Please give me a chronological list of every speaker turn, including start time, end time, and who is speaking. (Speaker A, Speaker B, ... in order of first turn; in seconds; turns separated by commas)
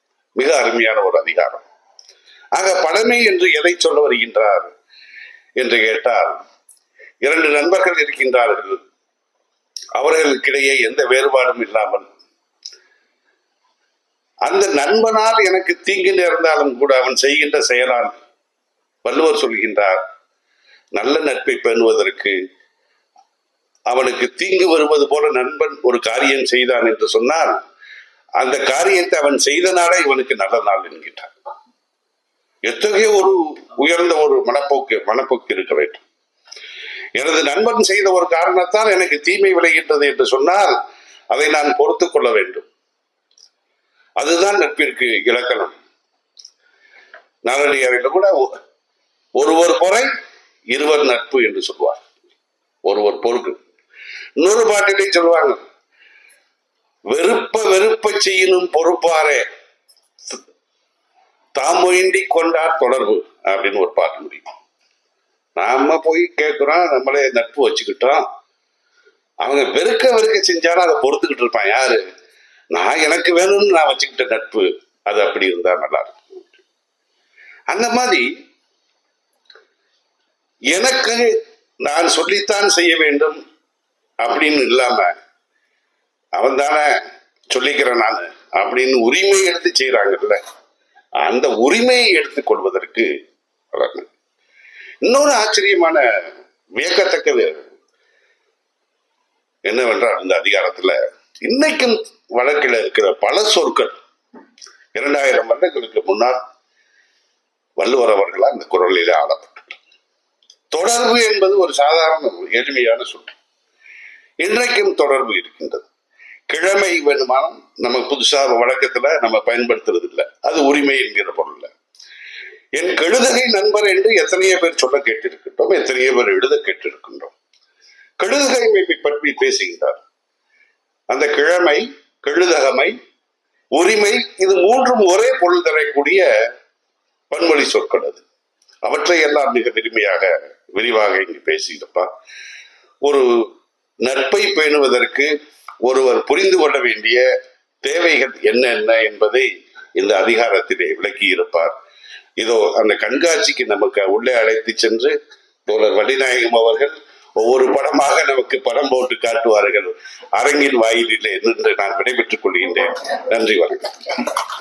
Speaker A: 0.4-1.6, Speaker A: 2.5-4.7, Speaker A: 5.6-6.4, Speaker A: 7.2-8.8, Speaker A: 10.0-12.0, Speaker A: 14.4-18.1, Speaker A: 19.0-20.0, Speaker A: 20.9-22.4, Speaker A: 23.9-27.6, Speaker A: 28.4-31.3, Speaker A: 32.6-36.0, Speaker A: 37.1-40.7, Speaker A: 41.3-42.6, Speaker A: 44.2-45.7, Speaker A: 47.5-48.3, Speaker A: 49.4-50.1, Speaker A: 50.7-52.0, Speaker A: 52.9-53.6, Speaker A: 54.4-55.6, Speaker A: 57.1-59.4, Speaker A: 61.5-64.5, Speaker A: 65.6-68.2, Speaker A: 69.4-72.0, Speaker A: 72.7-76.2, Speaker A: 77.7-78.3, Speaker A: 80.7-81.3, Speaker A: 81.8-83.4, Speaker A: 84.2-85.1, Speaker A: 86.4-86.9, Speaker A: 87.5-90.4, Speaker A: 91.2-93.1, Speaker A: 93.7-94.1, Speaker A: 95.0-96.0, Speaker A: 96.8-97.6, Speaker A: 99.7-103.9, Speaker A: 104.9-106.4, Speaker A: 107.8-109.8, Speaker A: 110.7-113.3, Speaker A: 114.4-115.8, Speaker A: 116.5-121.7, Speaker A: 122.8-127.3, Speaker A: 128.2-130.0, Speaker A: 131.1-133.0, Speaker A: 133.7-136.3, Speaker A: 137.3-138.2, Speaker A: 138.8-142.1, Speaker A: 144.0-145.3, Speaker A: 145.8-147.2, Speaker A: 147.8-151.7, Speaker A: 152.4-155.1, Speaker A: 155.7-163.9